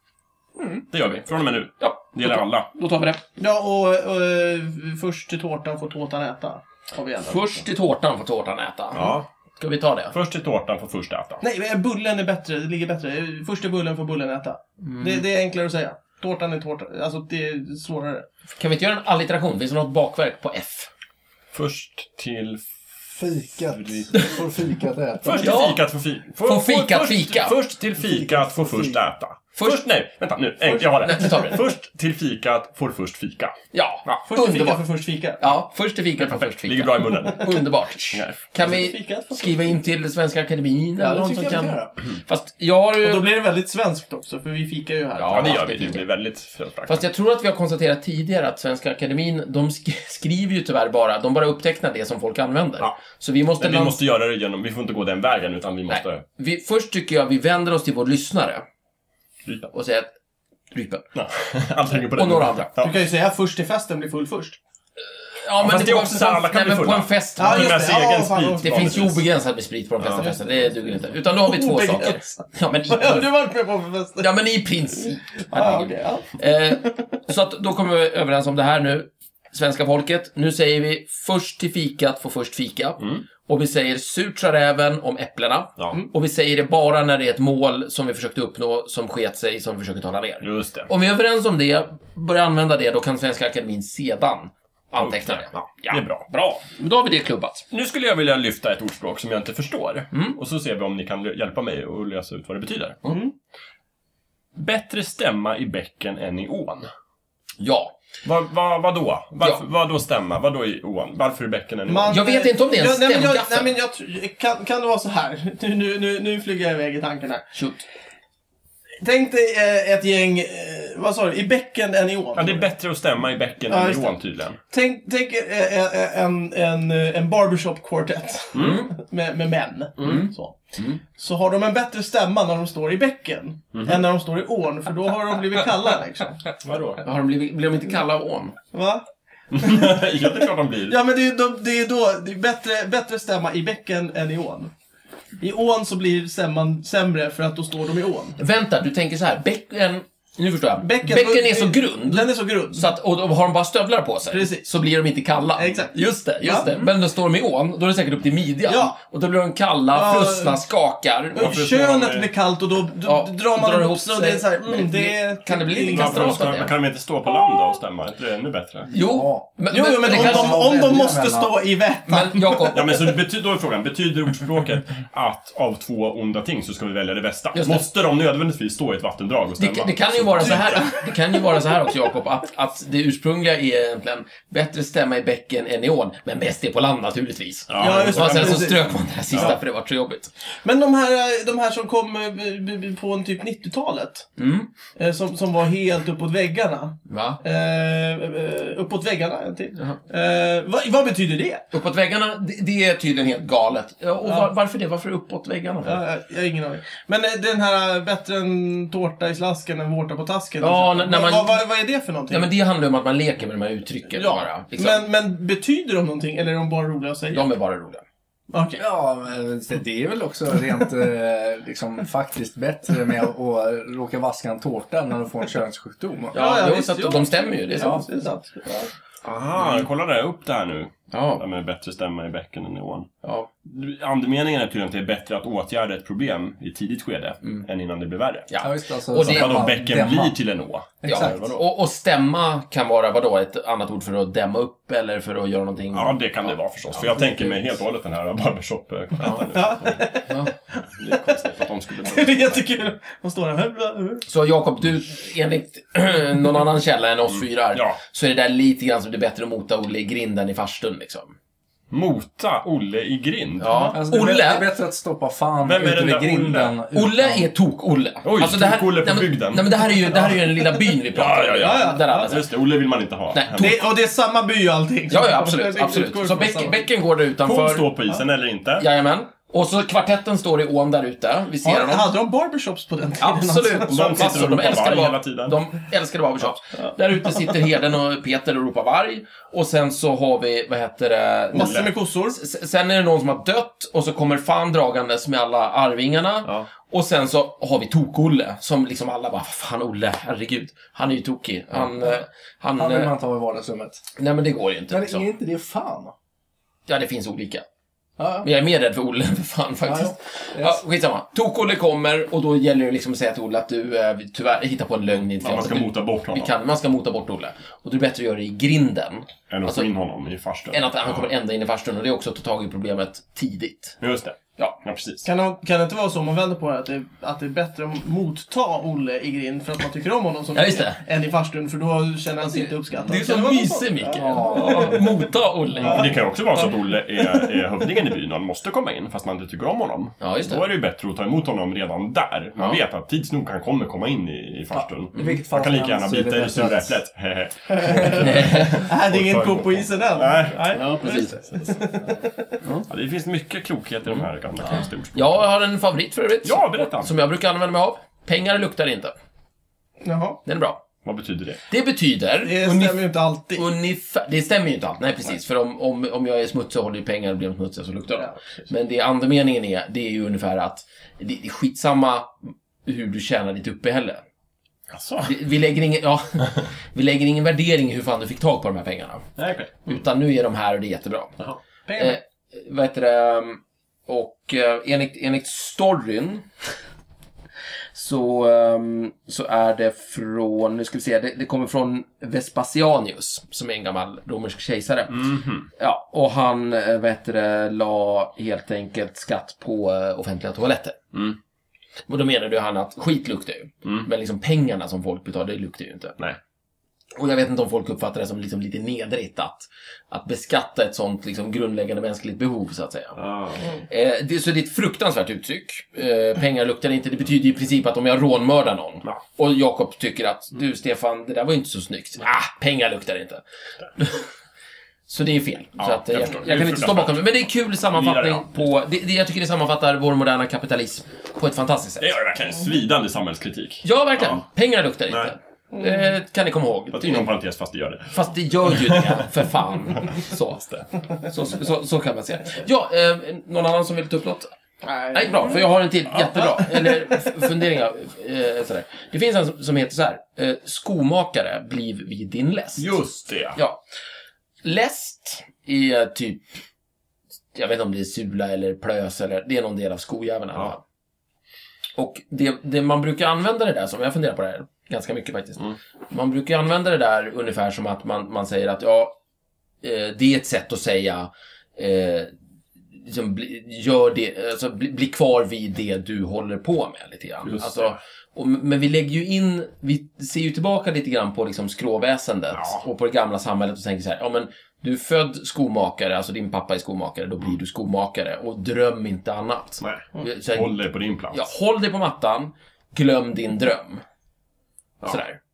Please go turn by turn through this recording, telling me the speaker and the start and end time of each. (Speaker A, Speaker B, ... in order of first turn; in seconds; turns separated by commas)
Speaker A: 0.9-2.7, Speaker B: 1.8-3.2, Speaker C: 3.4-7.6, Speaker B: 7.2-10.1, Speaker A: 8.9-9.3, Speaker A: 10.1-11.4, Speaker C: 11.4-18.3, Speaker B: 14.8-15.2, Speaker B: 18.6-20.9, Speaker A: 21.5-24.1, Speaker D: 23.2-25.6, Speaker A: 25.2-33.5, Speaker B: 25.3-25.8, Speaker B: 26.4-27.6, Speaker D: 27.9-29.0, Speaker B: 29.5-29.8, Speaker C: 30.6-31.4, Speaker B: 31.0-31.6, Speaker B: 33.7-34.8, Speaker C: 34.3-35.4, Speaker B: 35.4-43.3, Speaker A: 36.2-37.5, Speaker A: 38.1-38.4, Speaker C: 38.6-39.8, Speaker D: 41.0-41.9, Speaker C: 43.0-45.6, Speaker B: 45.2-46.1, Speaker A: 45.3-47.0, Speaker B: 46.9-54.0, Speaker A: 53.6-56.2, Speaker B: 55.9-58.6, Speaker B: 59.7-60.1, Speaker B: 60.7-61.0, Speaker A: 61.1-62.9, Speaker B: 62.1-62.7, Speaker C: 62.8-64.6, Speaker B: 65.3-67.9, Speaker A: 65.6-69.2, Speaker C: 67.4-68.9, Speaker B: 68.6-73.3, Speaker C: 70.2-74.3, Speaker B: 74.2-97.7, Speaker C: 75.0-77.0, Speaker A: 83.0-83.2, Speaker A: 90.4-90.9, Speaker A: 95.0-96.2, Speaker A: 97.7-103.0, Speaker C: 103.1-103.3, Speaker A: 104.5-106.9, Speaker B: 107.6-107.9, Speaker A: 108.2-112.2, Speaker C: 111.9-117.5, Speaker B: 112.1-113.7, Speaker B: 117.5-117.8, Speaker C: 119.0-122.6, Speaker A: 122.3-124.6, Speaker C: 123.7-124.2, Speaker C: 124.7-130.6, Speaker A: 128.5-128.8, Speaker B: 128.6-128.9, Speaker B: 130.0-131.0, Speaker C: 131.1-136.4, Speaker A: 133.7-134.0, Speaker A: 136.6-137.0, Speaker B: 137.0-138.6, Speaker C: 138.7-144.7, Speaker A: 139.5-141.0, Speaker C: 145.4-148.4, Speaker B: 148.4-161.6, Speaker C: 150.8-152.8, Speaker C: 154.3-154.7, Speaker C: 155.6-156.9, Speaker C: 158.7-159.0, Speaker C: 159.9-160.6, Speaker C: 161.3-166.6, Speaker A: 161.3-162.3, Speaker B: 163.0-166.7, Speaker A: 165.8-168.9, Speaker D: 168.9-169.5, Speaker B: 168.9-170.6, Speaker C: 169.7-172.8, Speaker D: 170.0-171.6, Speaker B: 172.1-173.1, Speaker A: 172.7-180.8, Speaker B: 177.5-177.8, Speaker B: 179.6-190.3, Speaker A: 187.7-189.6, Speaker C: 187.8-189.5, Speaker C: 190.6-194.3, Speaker B: 194.4-194.7, Speaker C: 194.9-201.7, Speaker B: 197.1-197.4, Speaker B: 201.7-206.0, Speaker C: 204.2-204.5, Speaker C: 205.8-212.5, Speaker B: 210.6-211.6, Speaker B: 212.3-215.0, Speaker C: 214.1-217.5, Speaker B: 217.3-218.0, Speaker C: 218.5-218.8, Speaker D: 218.8-226.3, Speaker C: 226.3-228.9, Speaker B: 226.3-228.0, Speaker D: 227.8-228.1, Speaker A: 229.2-233.1, Speaker B: 229.6-229.8, Speaker B: 231.1-231.4, Speaker B: 233.2-233.5, Speaker A: 233.6-238.5, Speaker B: 238.5-239.7, Speaker D: 238.6-240.3, Speaker A: 239.1-241.5, Speaker D: 241.0-241.4, Speaker B: 241.0-247.6, Speaker A: 245.9-250.1, Speaker B: 249.2-249.4, Speaker C: 249.5-251.4, Speaker B: 250.3-250.5, Speaker A: 250.9-252.6, Speaker C: 251.9-254.2, Speaker B: 254.3-261.3, Speaker A: 257.3-258.0, Speaker A: 261.9-263.9, Speaker B: 263.6-264.7, Speaker D: 263.9-267.5, Speaker A: 265.6-266.8, Speaker B: 266.9-272.4, Speaker A: 268.2-270.4, Speaker A: 271.1-273.8, Speaker C: 271.6-272.3, Speaker B: 273.3-273.8, Speaker C: 273.6-276.8, Speaker B: 275.1-277.9, Speaker A: 277.4-278.9, Speaker B: 278.8-282.1, Speaker C: 281.6-284.3, Speaker B: 283.2-303.1, Speaker A: 283.9-285.6, Speaker C: 286.8-287.6, Speaker C: 291.5-292.4, Speaker A: 291.6-291.9, Speaker D: 302.8-304.0, Speaker B: 304.1-305.3, Speaker D: 304.9-306.1, Speaker B: 306.9-307.6, Speaker D: 308.2-308.5, Speaker B: 308.4-319.9, Speaker D: 309.9-310.8, Speaker A: 315.4-316.5, Speaker A: 319.5-321.3, Speaker B: 320.7-324.0, Speaker A: 324.0-325.2, Speaker C: 325.2-335.2, Speaker B: 330.5-331.0, Speaker B: 333.0-336.2, Speaker D: 334.1-335.2, Speaker C: 335.8-337.6, Speaker A: 335.8-351.7, Speaker B: 340.2-340.6, Speaker D: 344.7-347.0, Speaker C: 347.8-352.6, Speaker B: 348.2-348.8, Speaker B: 350.7-351.4, Speaker A: 352.9-355.4, Speaker B: 355.1-359.1, Speaker A: 356.4-357.1, Speaker C: 360.0-360.4, Speaker B: 360.4-360.8, Speaker A: 361.0-361.6, Speaker B: 361.7-363.0, Speaker C: 362.4-363.7, Speaker B: 363.5-374.2, Speaker C: 368.2-368.7, Speaker A: 374.9-375.3, Speaker B: 375.2-379.3, Speaker A: 379.4-379.9, Speaker B: 379.9-381.3, Speaker C: 381.9-382.2, Speaker B: 381.9-386.5, Speaker B: 387.9-401.0, Speaker A: 395.1-395.7, Speaker B: 402.1-406.2, Speaker B: 407.1-413.2, Speaker A: 413.1-413.7, Speaker B: 413.9-423.4, Speaker B: 423.9-424.3, Speaker B: 425.1-432.1, Speaker A: 425.8-427.2, Speaker A: 427.9-428.7, Speaker A: 432.0-434.4, Speaker B: 433.8-437.3, Speaker A: 435.1-435.3, Speaker C: 435.7-436.1, Speaker A: 436.9-439.3, Speaker B: 438.1-444.5, Speaker C: 444.8-445.7, Speaker B: 445.1-453.0, Speaker C: 446.4-447.2, Speaker A: 452.8-453.6, Speaker B: 453.5-453.8, Speaker B: 454.6-456.6, Speaker B: 457.5-460.8, Speaker B: 461.9-469.2, Speaker B: 469.8-472.3, Speaker B: 472.9-490.8, Speaker A: 477.4-478.0, Speaker A: 482.5-482.8, Speaker A: 489.8-491.4, Speaker B: 491.3-494.0, Speaker B: 495.1-495.4